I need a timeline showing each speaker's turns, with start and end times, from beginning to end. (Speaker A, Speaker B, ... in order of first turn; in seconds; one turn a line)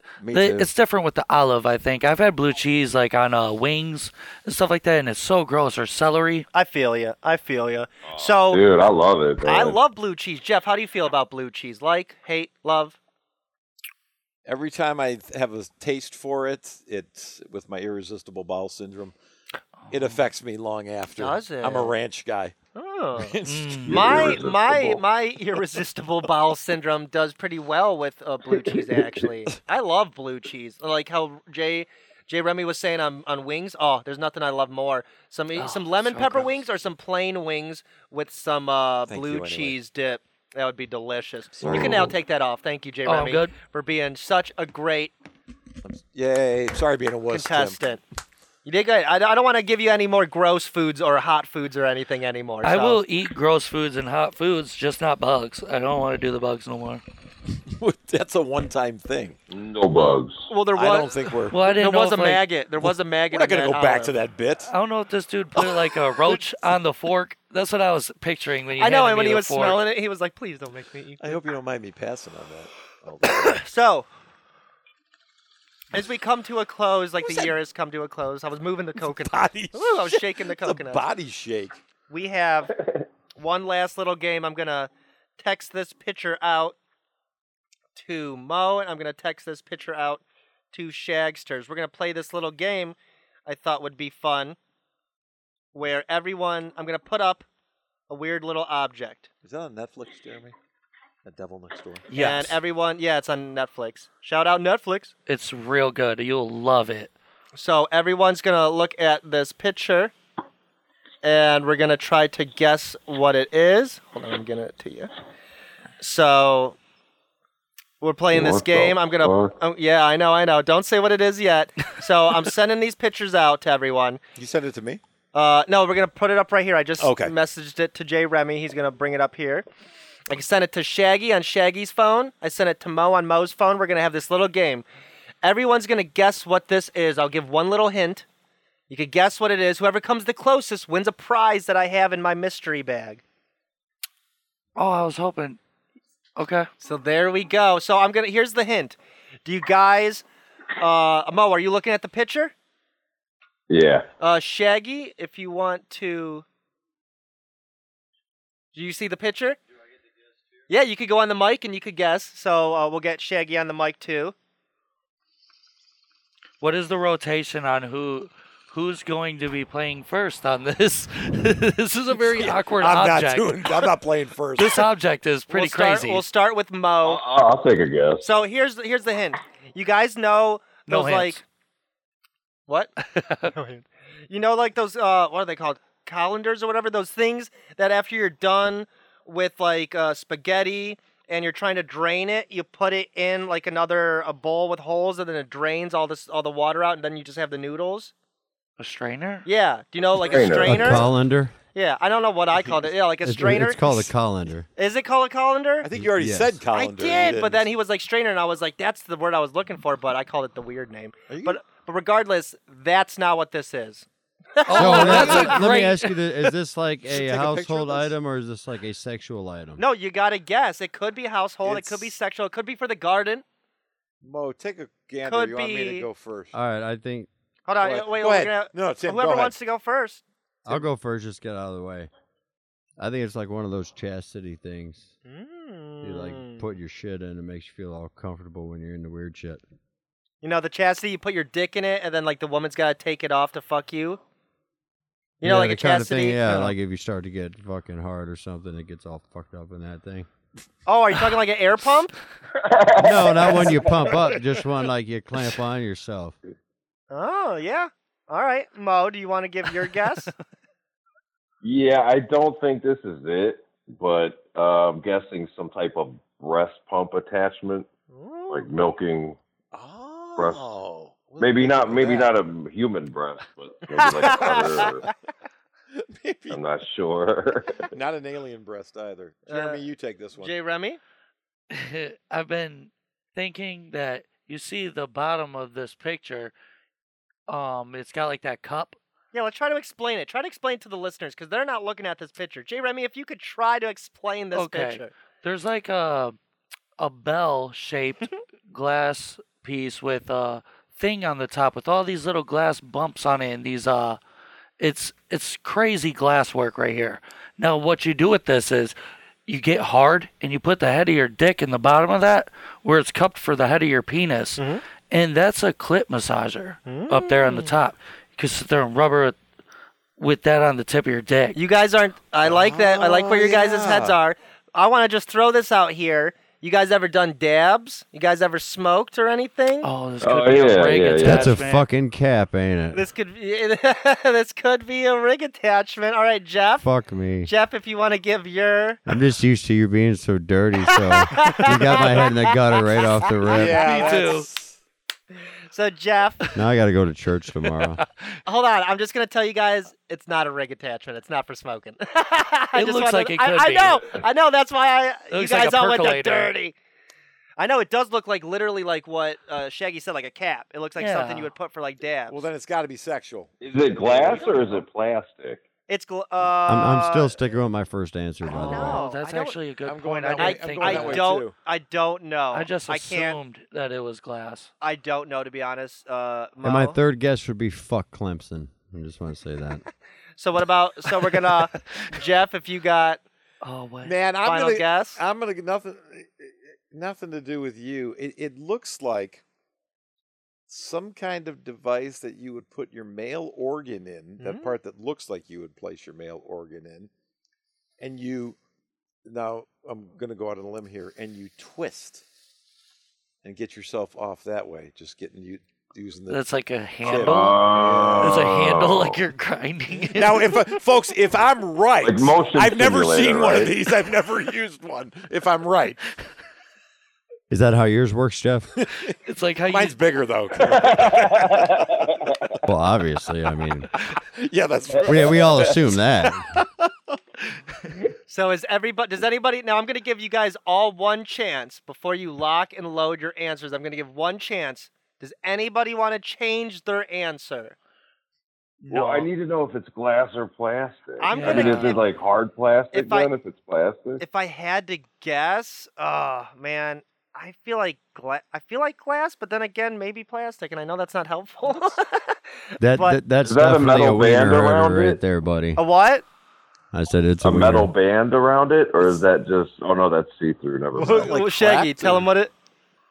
Speaker A: 0.2-0.7
Speaker B: 0.3-6.5
Speaker C: 6.5-8.6
Speaker D: 8.1-9.8
Speaker C: 9.4-13.0
Speaker A: 14.4-19.1
Speaker B: 19.9-20.2
Speaker A: 19.9-22.6
Speaker C: 21.2-21.9
Speaker C: 22.8-45.1
Speaker A: 23.2-24.5
Speaker B: 23.5-23.9
Speaker D: 23.9-25.0
Speaker D: 28.6-29.1
Speaker B: 35.6-36.6
Speaker A: 39.1-39.8
Speaker A: 41.6-42.1
Speaker D: 41.6-42.1
Speaker B: 43.1-43.5
Speaker A: 45.8-47.8
Speaker C: 47.3-48.0
Speaker C: 48.6-53.0
Speaker B: 52.6-57.0
Speaker A: 57.7-59.4
Speaker D: 59.5-60.5
Speaker C: 59.9-64.2
Speaker A: 60.7-61.6
Speaker B: 61.5-62.4
Speaker A: 62.8-64.7
Speaker B: 64.7-69.8
Speaker A: 65.6-66.5
Speaker C: 68.8-71.4
Speaker A: 71.2-73.6
Speaker C: 73.4-74.1
Speaker C: 75.9-81.0
Speaker A: 77.2-77.5
Speaker A: 79.0-81.8
Speaker C: 82.1-82.8
Speaker C: 83.4-86.8
Speaker C: 88.0-93.0
Speaker C: 93.5-94.6
Speaker C: 95.7-97.5
Speaker C: 98.1-99.3
Speaker A: 99.4-100.5
Speaker A: 101.2-102.1
Speaker B: 102.1-102.6
Speaker C: 102.1-105.1
Speaker B: 105.3-107.1
Speaker C: 107.5-110.1
Speaker C: 111.2-115.1
Speaker C: 116.0-116.8
Speaker C: 118.0-124.2
Speaker D: 118.3-119.5
Speaker A: 124.4-125.0
Speaker C: 125.3-129.7
Speaker A: 127.0-127.3
Speaker C: 130.3-134.8
Speaker C: 135.4-138.3
Speaker C: 138.9-143.2
Speaker B: 144.8-145.6
Speaker B: 146.4-146.7
Speaker C: 146.8-150.3
Speaker C: 150.8-152.5
Speaker D: 153.7-154.1
Speaker C: 154.2-156.4
Speaker C: 158.7-159.6
Speaker C: 160.7-164.3
Speaker B: 166.6-173.9
Speaker A: 172.2-174.9
Speaker B: 174.6-176.2
Speaker C: 175.5-177.2
Speaker D: 177.0-178.3
Speaker C: 178.2-181.4
Speaker B: 180.9-181.4
Speaker C: 182.7-198.1
Speaker B: 183.2-183.5
Speaker B: 198.8-199.5
Speaker C: 199.5-201.1
Speaker D: 200.2-201.1
Speaker E: 200.6-201.5
Speaker C: 201.7-204.1
Speaker E: 203.2-204.7
Speaker C: 204.8-205.9
Speaker A: 205.8-207.7
Speaker E: 206.0-206.6
Speaker C: 206.7-215.7
Speaker A: 211.3-211.6
Speaker B: 214.7-216.5
Speaker E: 214.7-219.8
Speaker A: 217.0-218.2
Speaker C: 219.8-223.4
Speaker A: 221.6-222.1
Speaker A: 224.2-226.6
Speaker C: 225.2-226.1
Speaker E: 226.5-227.3
Speaker C: 227.7-230.2
Speaker A: 227.8-229.6
Speaker E: 230.7-232.1
Speaker E: 233.0-235.1
Speaker C: 235.2-236.7
Speaker E: 236.0-239.6
Speaker C: 240.4-244.2
Speaker C: 245.4-246.8
Speaker E: 245.4-250.3
Speaker C: 250.9-252.1
Speaker D: 252.6-254.3
Speaker E: 253.0-256.4
Speaker C: 257.1-260.3
Speaker D: 261.6-267.9
Speaker C: 268.1-268.7
Speaker D: 268.5-269.4
Speaker A: 269.7-272.3
Speaker D: 270.4-270.6
Speaker D: 271.4-275.1
Speaker C: 273.9-275.1
Speaker A: 274.2-275.1
Speaker A: 275.9-276.6
Speaker D: 276.5-277.9
Speaker A: 277.9-280.5
Speaker C: 279.5-279.8
Speaker C: 280.4-281.0
Speaker B: 281.7-286.5
Speaker B: 287.5-289.0
Speaker C: 289.3-295.1
Speaker B: 294.5-296.4
Speaker B: 297.0-304.2
Speaker B: 304.8-309.0
Speaker B: 309.5-319.4
Speaker C: 314.6-314.8
Speaker C: 316.9-317.7
Speaker B: 320.2-321.6
Speaker C: 321.6-329.9
Speaker A: 322.4-324.2
Speaker B: 329.8-331.9
Speaker D: 330.2-331.6
Speaker E: 331.2-333.1
Speaker C: 332.9-336.9
Speaker E: 336.8-337.5
Speaker C: 337.4-339.0
Speaker E: 339.1-343.9
Speaker C: 340.9-344.0
Speaker A: 343.5-344.8
Speaker B: 343.6-344.5
Speaker C: 345.7-346.5
Speaker E: 346.6-348.0
Speaker B: 347.6-348.1
Speaker C: 348.5-356.8
Speaker B: 352.8-354.2
Speaker B: 355.3-356.5
Speaker C: 357.6-362.5
Speaker B: 361.0-361.5
Speaker A: 362.3-364.8
Speaker D: 363.6-365.6
Speaker C: 365.9-367.4
Speaker E: 366.7-369.0
Speaker C: 368.5-369.6
Speaker B: 368.5-371.3
Speaker A: 369.8-371.6
Speaker C: 370.4-373.4
Speaker B: 372.5-374.7
Speaker C: 374.8-377.0
Speaker E: 376.6-379.9
Speaker C: 380.4-383.2
Speaker B: 383.6-384.2
Speaker A: 384.0-389.4
Speaker C: 384.4-385.2
Speaker A: 390.7-397.1
Speaker C: 394.4-394.8
Speaker A: 398.0-398.6
Speaker A: 399.2-402.2
Speaker A: 403.4-406.4
Speaker B: 406.3-410.7
Speaker A: 407.0-408.5
Speaker D: 407.1-409.2
Speaker A: 410.1-416.0
Speaker D: 412.0-413.7
Speaker E: 417.5-418.7
Speaker A: 418.8-419.1
Speaker B: 419.2-420.0
Speaker A: 419.7-422.1
Speaker D: 420.7-422.6
Speaker E: 422.6-423.9
Speaker A: 424.1-427.2
Speaker E: 425.1-426.5
Speaker C: 428.3-437.8
Speaker B: 438.9-439.3
Speaker D: 438.9-444.2
Speaker C: 441.2-442.0
Speaker B: 441.3-442.0
Speaker C: 442.9-443.3
Speaker C: 444.2-453.2
Speaker E: 452.8-455.8
Speaker D: 453.4-455.2
Speaker C: 455.8-456.2
Speaker E: 456.9-457.9
Speaker D: 457.4-461.4
Speaker C: 461.0-462.5
Speaker A: 461.0-462.3